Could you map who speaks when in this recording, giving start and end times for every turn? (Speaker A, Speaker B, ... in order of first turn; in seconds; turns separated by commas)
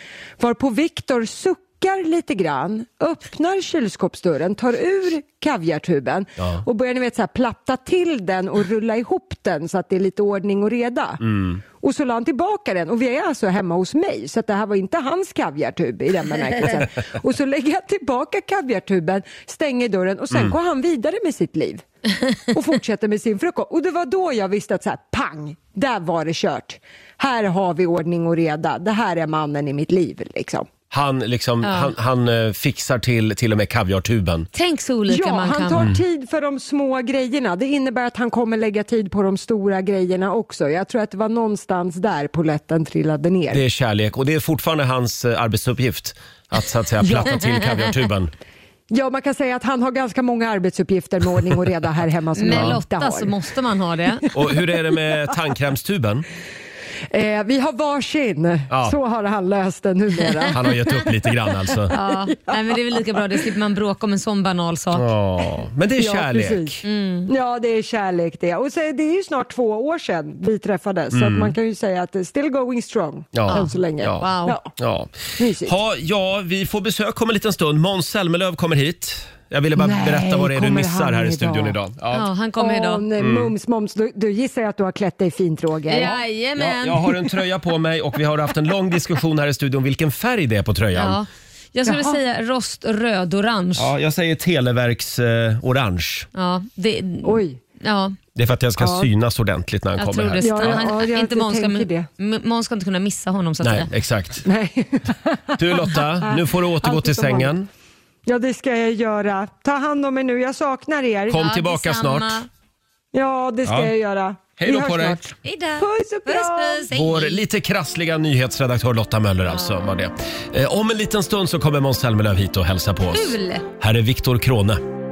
Speaker A: 0.4-21.8, Speaker B: 11.2-11.6, Speaker B: 20.3-20.6, Speaker A: 22.5-30.7, Speaker B: 30.9-34.5, Speaker C: 31.6-31.9, Speaker C: 34.5-35.9, Speaker A: 35.1-43.6, Speaker B: 35.8-36.0, Speaker B: 43.5-48.3, Speaker C: 47.0-47.8, Speaker A: 48.9-53.3, Speaker C: 52.4-54.3, Speaker B: 52.4-52.8, Speaker B: 54.3-56.2, Speaker A: 57.1-61.1, Speaker B: 58.7-59.0, Speaker B: 60.5-61.9, Speaker A: 61.8-63.2, Speaker C: 61.9-65.0, Speaker B: 64.9-66.8, Speaker A: 66.0-74.7, Speaker C: 66.8-67.3, Speaker B: 71.1-71.6, Speaker B: 73.3-82.3, Speaker C: 73.5-74.6, Speaker A: 75.4-75.8, Speaker A: 79.8-81.8, Speaker C: 82.1-83.0, Speaker A: 82.6-86.2, Speaker B: 83.2-83.5, Speaker C: 85.9-87.0, Speaker B: 86.6-91.2, Speaker C: 91.0-93.9, Speaker A: 91.9-92.2, Speaker B: 93.8-96.3, Speaker C: 96.3-98.2, Speaker A: 97.2-97.6, Speaker B: 98.4-100.9, Speaker A: 98.8-99.1, Speaker C: 100.0-103.9, Speaker A: 100.4-102.1, Speaker B: 103.6-104.5, Speaker A: 104.4-107.5, Speaker B: 105.6-107.7, Speaker A: 108.3-111.4, Speaker B: 111.3-112.4, Speaker C: 111.3-112.5, Speaker A: 113.1-116.9, Speaker B: 113.7-113.9, Speaker B: 114.6-115.2, Speaker C: 115.4-117.4, Speaker B: 116.9-124.8, Speaker C: 123.1-123.7